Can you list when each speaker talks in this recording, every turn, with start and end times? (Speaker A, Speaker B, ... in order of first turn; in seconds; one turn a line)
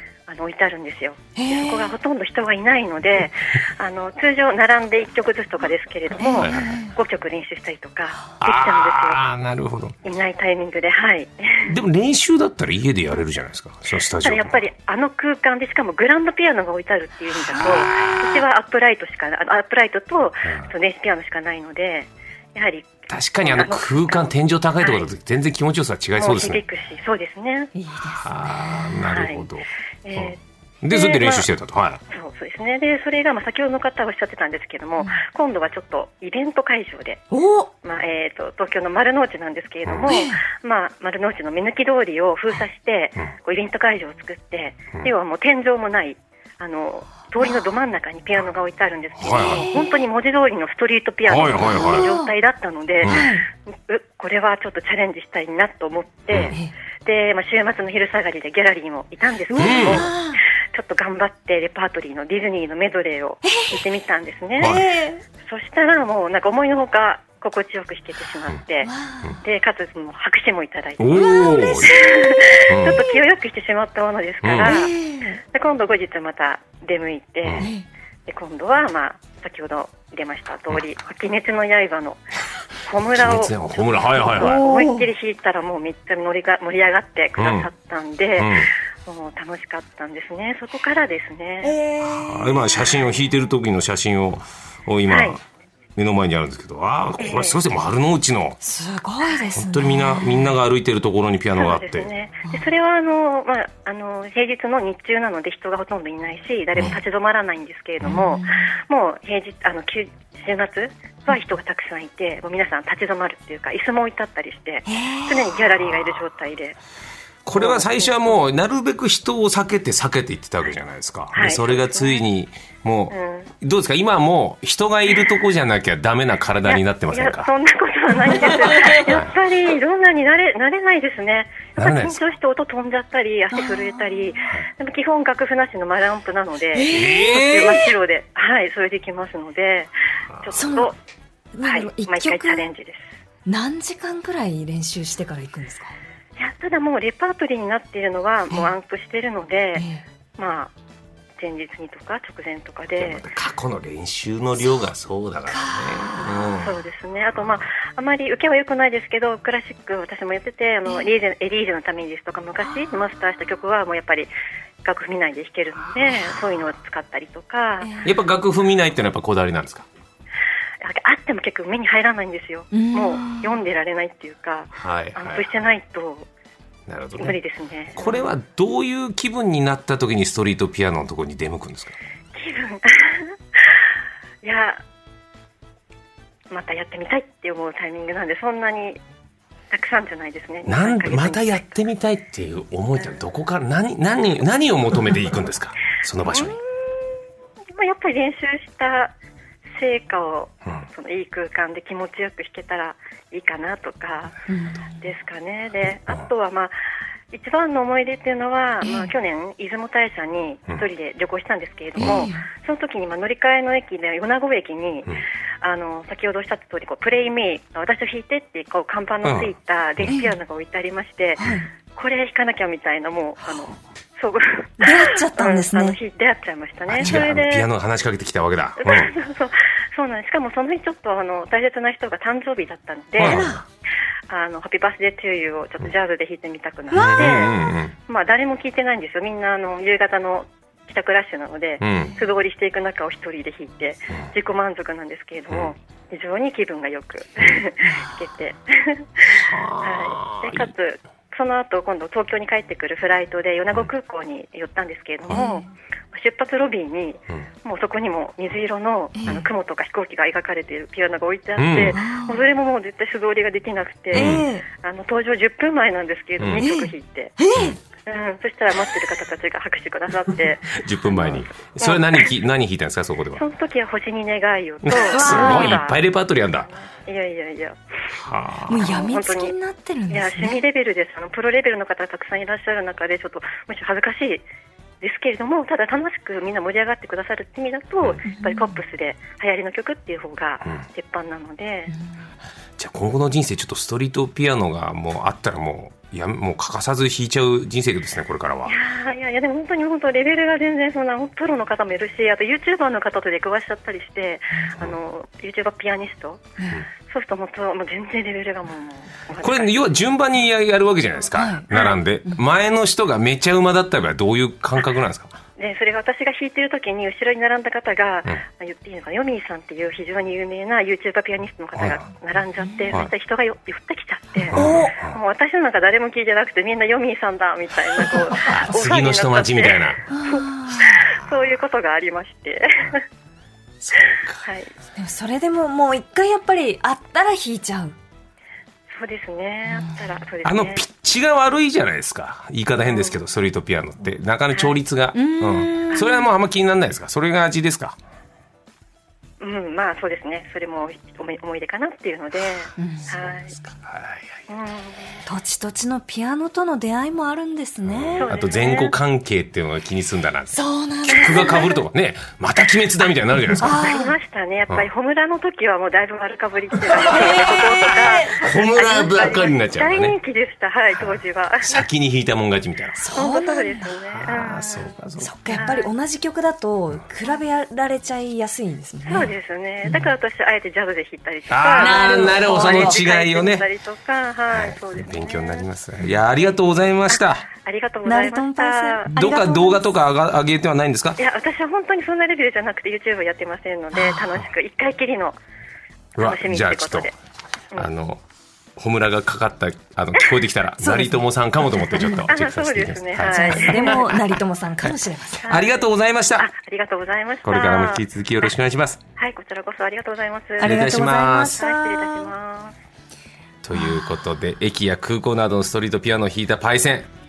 Speaker A: 0.3-9.2
Speaker B: 1.4-2.0
Speaker B: 6.2-6.9
Speaker C: 6.4-6.8
Speaker C: 8.4-10.0
Speaker A: 10.1-11.8
Speaker C: 11.7-14.6
Speaker A: 14.2-25.1
Speaker C: 17.6-18.4
Speaker C: 20.5-20.7
Speaker C: 23.1-26.6
Speaker A: 26.2-27.7
Speaker B: 27.8-29.0
Speaker C: 28.2-32.0
Speaker A: 29.1-29.4
Speaker A: 30.0-31.5
Speaker A: 32.1-37.2
Speaker B: 37.3-37.7
Speaker A: 37.8-60.1
Speaker C: 39.9-40.2
Speaker B: 40.1-40.4
Speaker C: 49.2-49.7
Speaker B: 49.4-49.9
Speaker C: 51.3-52.1
Speaker B: 51.7-52.3
Speaker B: 53.1-53.5
Speaker C: 56.3-56.6
Speaker B: 59.5-60.4
Speaker C: 59.6-60.1
Speaker A: 60.7-64.8
Speaker B: 63.4-63.8
Speaker C: 64.6-64.8
Speaker B: 64.6-65.2
Speaker A: 65.4-68.9
Speaker B: 68.8-69.4
Speaker A: 69.4-74.9
Speaker C: 71.0-72.1
Speaker B: 71.1-72.4
Speaker C: 72.7-73.0
Speaker C: 74.4-74.8
Speaker B: 74.7-75.4
Speaker A: 75.5-77.7
Speaker B: 77.6-77.9
Speaker A: 78.3-82.2
Speaker A: 82.8-91.8
Speaker C: 83.2-84.6
Speaker B: 84.4-85.1
Speaker C: 87.4-87.7
Speaker C: 88.4-88.7
Speaker B: 91.6-92.9
Speaker C: 92.0-95.4
Speaker A: 95.1-95.4
Speaker C: 96.0-98.6
Speaker A: 97.2-97.6
Speaker B: 98.6-100.5
Speaker C: 99.5-102.1
Speaker A: 101.5-116.8
Speaker B: 108.0-108.7
Speaker B: 114.9-115.5
Speaker C: 117.5-127.5
Speaker A: 117.5-118.4
Speaker A: 121.3-122.3
Speaker A: 123.1-123.5
Speaker A: 126.7-141.0
Speaker B: 128.7-129.1
Speaker C: 129.1-129.4
Speaker C: 131.8-132.2
Speaker B: 133.5-133.9
Speaker B: 136.7-137.9
Speaker C: 136.9-137.9
Speaker C: 140.3-140.6
Speaker B: 140.5-140.9
Speaker B: 141.5-142.6
Speaker A: 141.6-143.2
Speaker B: 143.5-145.9
Speaker A: 146.4-149.9
Speaker B: 149.8-150.0
Speaker A: 150.4-150.7
Speaker A: 151.4-153.2
Speaker C: 153.0-156.8
Speaker B: 155.5-156.5
Speaker A: 156.5-164.3
Speaker C: 157.4-157.6
Speaker A: 164.8-167.9
Speaker B: 167.8-168.1
Speaker C: 168.0-169.9
Speaker A: 170.8-176.3
Speaker B: 172.7-173.6
Speaker C: 174.8-175.6
Speaker C: 176.9-177.4
Speaker A: 177.2-178.3
Speaker C: 177.9-182.0
Speaker A: 182.3-183.8
Speaker A: 184.4-184.8
Speaker A: 186.5-189.0
Speaker A: 189.7-191.8
Speaker C: 190.7-196.6
Speaker A: 196.2-199.1
Speaker A: 199.8-204.4
Speaker B: 204.5-204.9
Speaker A: 205.0-206.8
Speaker A: 207.3-227.7
Speaker B: 208.8-209.1
Speaker C: 212.0-212.3
Speaker B: 212.0-212.5
Speaker C: 219.2-220.2
Speaker B: 220.1-220.3
Speaker B: 221.4-221.7
Speaker B: 224.8-226.0
Speaker C: 226.9-229.1
Speaker A: 228.8-233.5
Speaker C: 233.2-233.6
Speaker B: 233.2-233.6
Speaker A: 234.3-267.4
Speaker B: 236.9-237.4
Speaker C: 236.9-237.9
Speaker C: 241.8-242.2
Speaker C: 249.3-250.7
Speaker B: 255.3-255.7
Speaker B: 259.1-259.4
Speaker C: 261.6-262.0
Speaker B: 261.9-262.4
Speaker C: 264.1-264.4
Speaker B: 264.1-264.7
Speaker C: 266.4-266.7
Speaker B: 266.6-267.8
Speaker A: 268.1-272.3
Speaker C: 270.8-273.4
Speaker A: 273.4-276.0
Speaker C: 274.8-276.7
Speaker B: 274.9-275.8
Speaker A: 277.1-277.8
Speaker C: 278.2-278.9
Speaker B: 278.7-280.6
Speaker A: 278.8-279.5
Speaker A: 280.1-284.5
Speaker A: 285.0-291.9
Speaker B: 288.3-288.8
Speaker C: 292.8-298.8
Speaker A: 298.6-306.4
Speaker A: 307.1-309.8
Speaker C: 309.4-315.4
Speaker B: 311.4-311.7
Speaker A: 311.7-312.0
Speaker A: 315.6-333.1
Speaker C: 321.8-322.0
Speaker B: 322.6-323.0
Speaker B: 324.5-324.9
Speaker C: 324.5-325.2
Speaker C: 328.4-330.0
Speaker B: 330.1-331.0
Speaker C: 333.8-334.4
Speaker A: 334.4-334.7
Speaker B: 335.0-338.0
Speaker A: 338.9-340.9
Speaker C: 340.4-348.0
Speaker B: 345.1-346.3
Speaker A: 349.4-353.5
Speaker B: 352.8-353.1
Speaker C: 353.1-354.3
Speaker A: 354.5-355.2
Speaker B: 355.3-358.3
Speaker C: 357.8-363.9
Speaker A: 358.2-358.9
Speaker B: 360.5-361.8
Speaker B: 363.6-364.1
Speaker A: 363.6-371.9
Speaker B: 367.0-369.1
Speaker C: 368.3-370.2
Speaker C: 371.0-373.1
Speaker B: 373.0-373.9
Speaker A: 373.1-374.9
Speaker C: 374.1-375.3
Speaker B: 375.2-379.3
Speaker A: 375.5-375.9
Speaker A: 379.1-385.7
Speaker C: 381.5-383.7
Speaker B: 381.8-383.0
Speaker C: 384.5-387.5
Speaker A: 387.1-389.1
Speaker B: 388.1-390.0
Speaker C: 389.1-391.2
Speaker A: 391.2-395.4
Speaker B: 393.9-394.2
Speaker C: 396.2-397.1
Speaker A: 396.2-397.1
Speaker C: 397.8-398.2
Speaker C: 398.8-406.5
Speaker B: 400.8-401.2
Speaker B: 401.9-402.3
Speaker A: 402.2-404.2
Speaker B: 403.2-405.5
Speaker A: 405.4-405.9
Speaker A: 406.4-408.5
Speaker C: 407.4-409.0
Speaker A: 409.2-412.8
Speaker B: 410.6-412.3
Speaker C: 410.6-411.6
Speaker C: 413.6-417.1
Speaker B: 413.8-414.1